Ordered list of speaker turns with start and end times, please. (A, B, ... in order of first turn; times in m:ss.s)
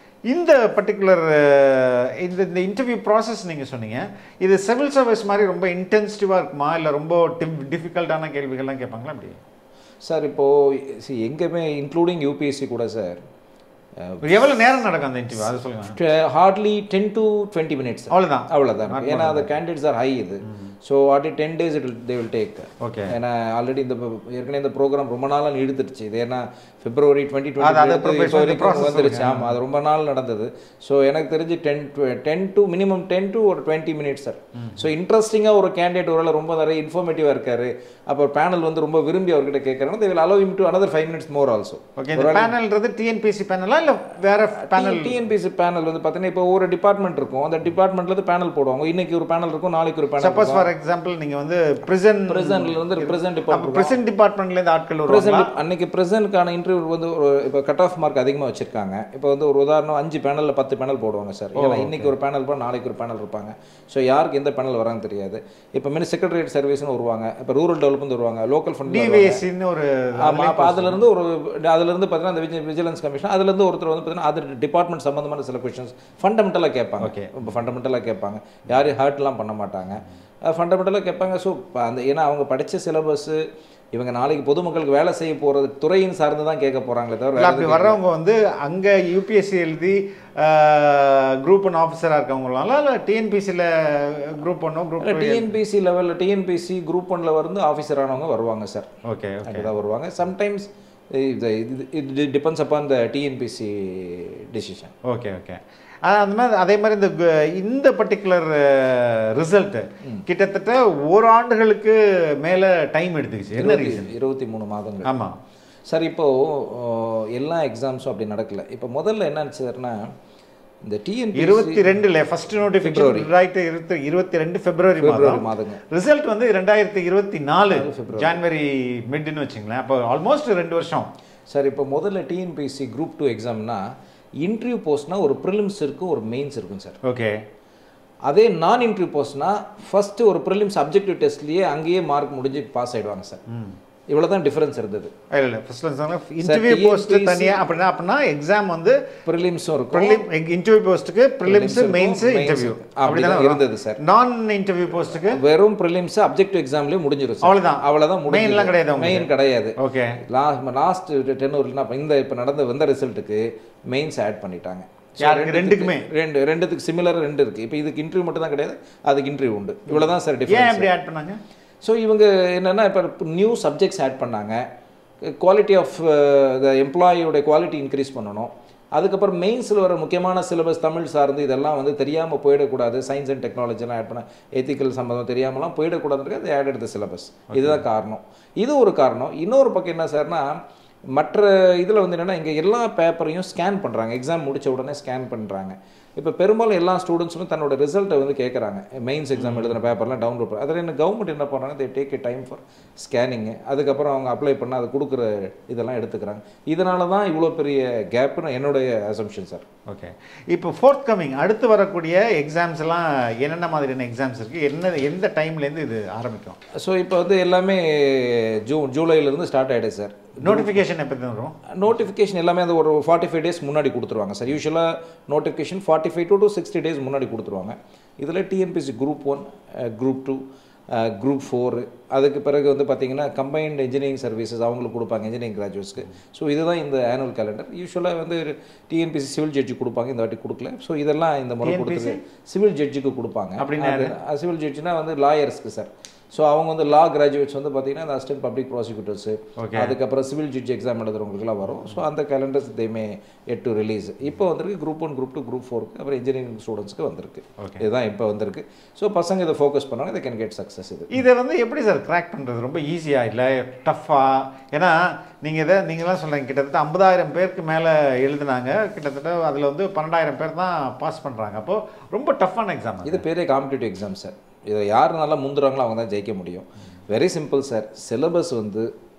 0:00.3-0:09.4 A
0:10.0-0:13.2 B
0:14.0-0:14.8 B
0:14.2-0:16.0 A
0:15.9-0:42.5 B
0:18.1-0:19.6 A
0:22.8-0:23.1 A
0:27.6-0:29.6 A
0:42.0-0:45.2 A
0:44.6-0:50.7 B
0:50.2-0:55.5 A
0:52.3-0:54.0 B
0:55.1-1:09.4 B
1:01.6-1:02.1 A
1:08.9-1:11.1 A
1:10.2-1:23.4 B
1:17.0-1:17.4 A
1:23.9-1:28.0 B
1:27.4-1:35.5 A
1:35.0-1:38.9 B
1:39.1-1:39.7 A
1:39.5-1:44.9 B
1:45.1-1:54.1 A
1:53.6-1:55.1 B
1:55.0-1:55.3 A
1:55.9-2:00.0 B
2:00.9-2:02.0 B
2:01.4-2:11.1 A
2:02.8-2:03.3 B
2:05.0-2:05.8 B
2:07.7-2:08.4 B
2:11.5-2:13.8 B
2:14.4-2:17.0 B
2:17.0-2:17.4 A
2:18.3-2:23.4 B
2:23.5-2:23.8 A
2:24.1-2:25.1 B
2:25.3-2:29.0 A
2:26.4-2:27.7 B
2:29.2-2:30.2 B
2:29.9-2:35.4 A
2:31.4-2:34.0 B
2:35.1-2:50.9 B
2:37.4-2:40.2 A
2:45.2-2:46.1 A
2:49.9-2:51.4 A
2:51.8-2:54.6 B
2:55.3-3:10.6 B
3:07.5-3:07.8 A
3:11.1-3:29.6 B
3:19.4-3:19.8 A
3:29.9-3:36.6 A
3:36.8-3:40.8 B
3:40.4-3:41.6 A
3:41.8-3:50.4 B
3:50.9-4:21.1 B
4:01.6-4:02.2 A
4:03.6-4:04.1 A
4:09.6-4:10.0 A
4:21.1-4:33.2 A
4:33.0-4:38.9 B